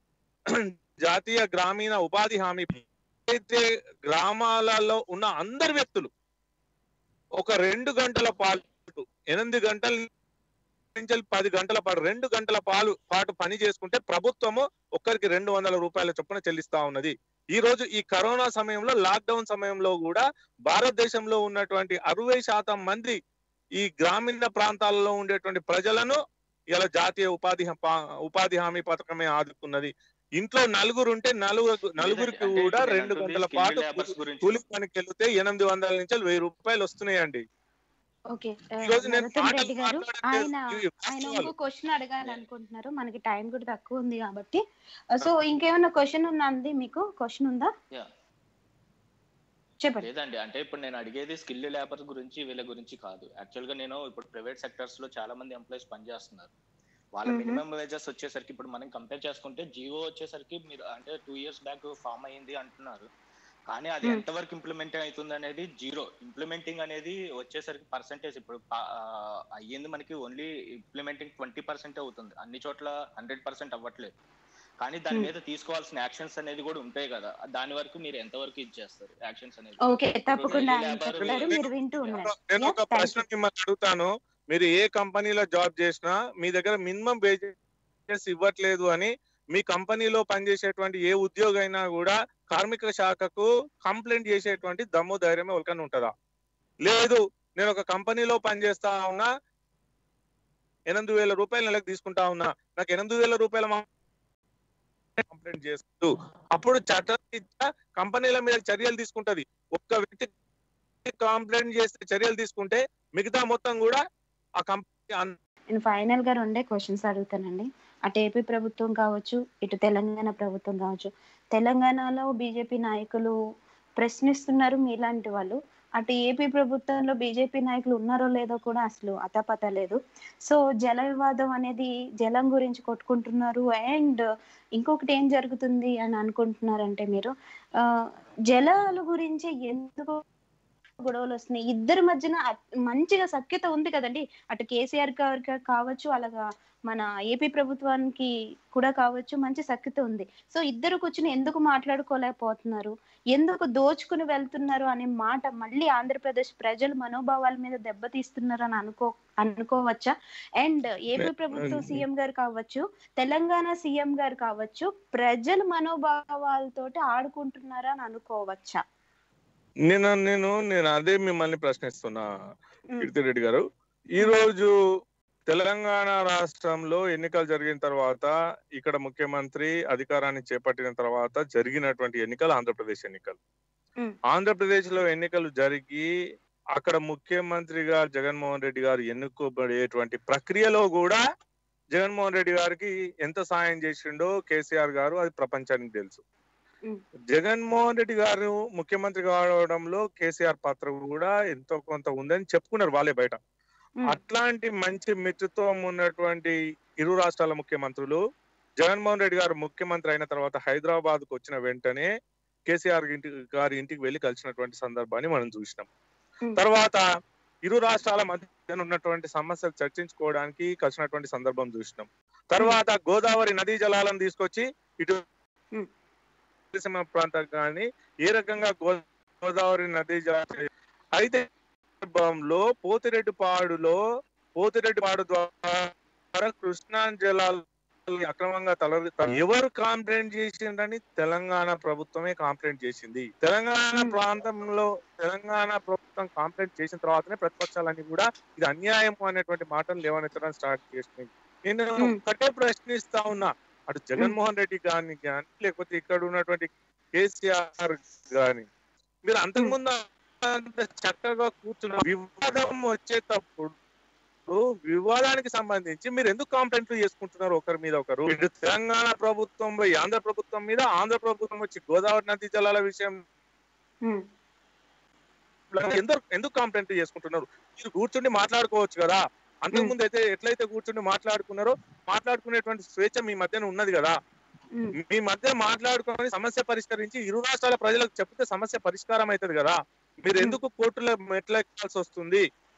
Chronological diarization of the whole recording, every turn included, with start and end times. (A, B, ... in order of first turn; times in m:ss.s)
0:00.6-0:06.1 A
0:07.4-0:10.1 A
0:11.0-0:23.2 A
0:23.8-0:26.2 A
0:26.8-0:37.4 A
0:32.0-0:34.6 B
0:38.3-0:47.7 C
0:38.8-0:41.5 A
0:50.0-0:56.5 B
0:57.2-1:03.1 B
0:57.3-0:57.6 C
1:03.7-1:08.8 B
1:09.6-1:14.1 B
1:14.8-1:19.8 B
1:19.9-1:23.2 C
1:20.4-1:22.2 B
1:21.2-1:21.6 A
1:22.3-1:27.5 A
1:28.1-1:36.1 A
1:36.8-1:39.3 A
1:40.9-1:43.8 A
1:45.2-1:50.3 A
1:51.0-1:54.0 A
1:54.6-1:55.3 A
1:55.7-2:03.4 C
2:04.0-2:14.2 C
2:14.8-2:17.9 C
2:18.5-2:20.2 C
2:21.0-2:48.8 C
2:41.2-2:42.0 A
2:49.9-2:52.3 A
2:53.0-2:53.6 A
2:54.2-2:54.7 A
2:55.5-3:03.4 A
3:04.3-3:06.1 A
3:06.8-3:11.2 A
3:12.0-3:16.2 A
3:17.3-3:23.4 A
3:24.0-3:28.2 A
3:28.8-3:32.1 A
3:32.7-3:35.9 A
3:36.6-3:37.0 A
3:37.7-3:45.2 A
3:46.7-3:50.6 A
3:51.2-3:51.4 A
3:52.0-3:54.0 A
3:54.6-4:18.7 A
4:19.2-4:23.8 A
4:24.5-4:33.2 A
4:35.7-4:44.2 A
4:45.0-4:52.4 A